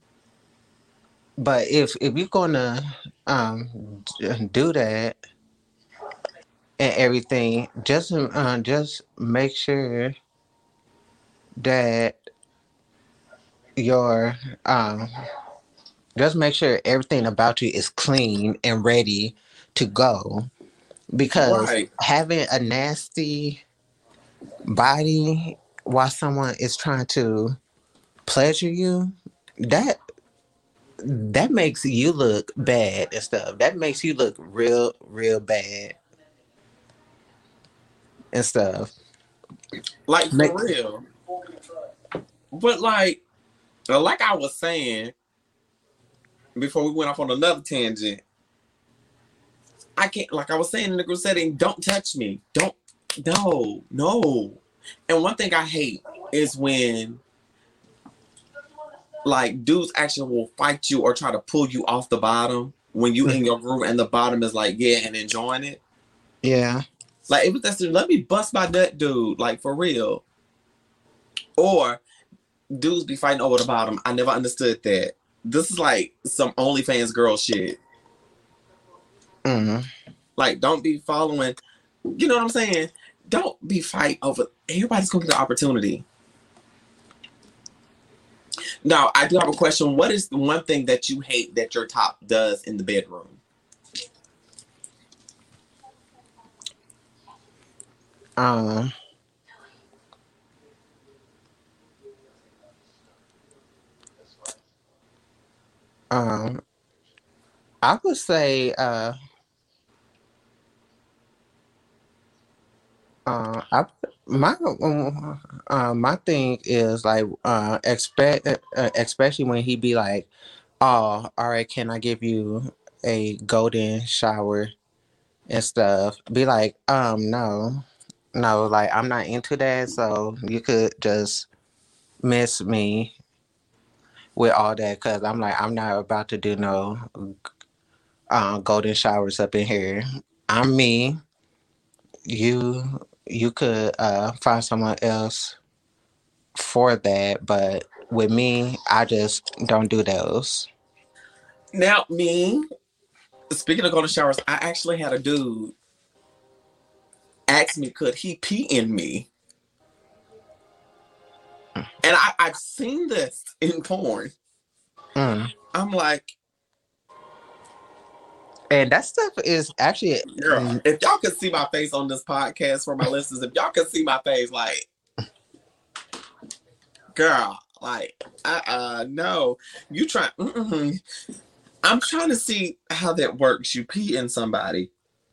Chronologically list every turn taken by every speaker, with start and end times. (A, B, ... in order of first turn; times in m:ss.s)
0:01.4-0:05.2 A
0:06.8-0:10.1 A
0:11.6-0:12.2 A
0:13.8-0:15.1 A
0:16.2-0:20.5 A
0:21.1-0:23.6 A
0:21.4-0:21.9 B
0:24.7-0:27.6 A
0:28.2-0:30.0 A
0:31.0-0:36.0 A
0:38.3-0:38.9 A
0:40.1-0:41.0 B
0:40.3-0:40.6 A
0:42.5-0:43.2 B
0:43.9-0:45.1 B
0:46.6-0:48.2 B
0:50.0-0:57.2 B
0:59.2-1:05.8 B
1:06.4-1:06.8 A
1:07.3-1:10.2 B
1:11.6-1:12.0 B
1:12.7-1:17.8 B
1:19.4-1:19.9 A
1:20.4-1:21.6 B
1:22.1-1:26.0 B
1:28.8-1:33.4 B
1:38.4-1:38.9 A
1:46.1-1:46.6 A
1:47.8-1:49.1 A
1:53.3-2:00.3 A
2:00.8-2:04.7 A
2:05.5-2:11.5 A
2:12.2-2:13.1 A
2:14.4-2:17.3 A
2:18.3-2:21.2 A
2:22.2-2:25.6 A
2:26.6-2:30.7 A
2:31.7-2:32.6 B
2:33.5-2:35.7 B
2:37.5-2:39.3 B
2:42.0-2:44.3 B
2:45.2-2:45.5 A
2:45.7-2:46.3 B
2:48.7-2:50.8 A
2:50.3-2:54.9 B
2:57.1-3:01.0 B
3:01.8-3:04.9 B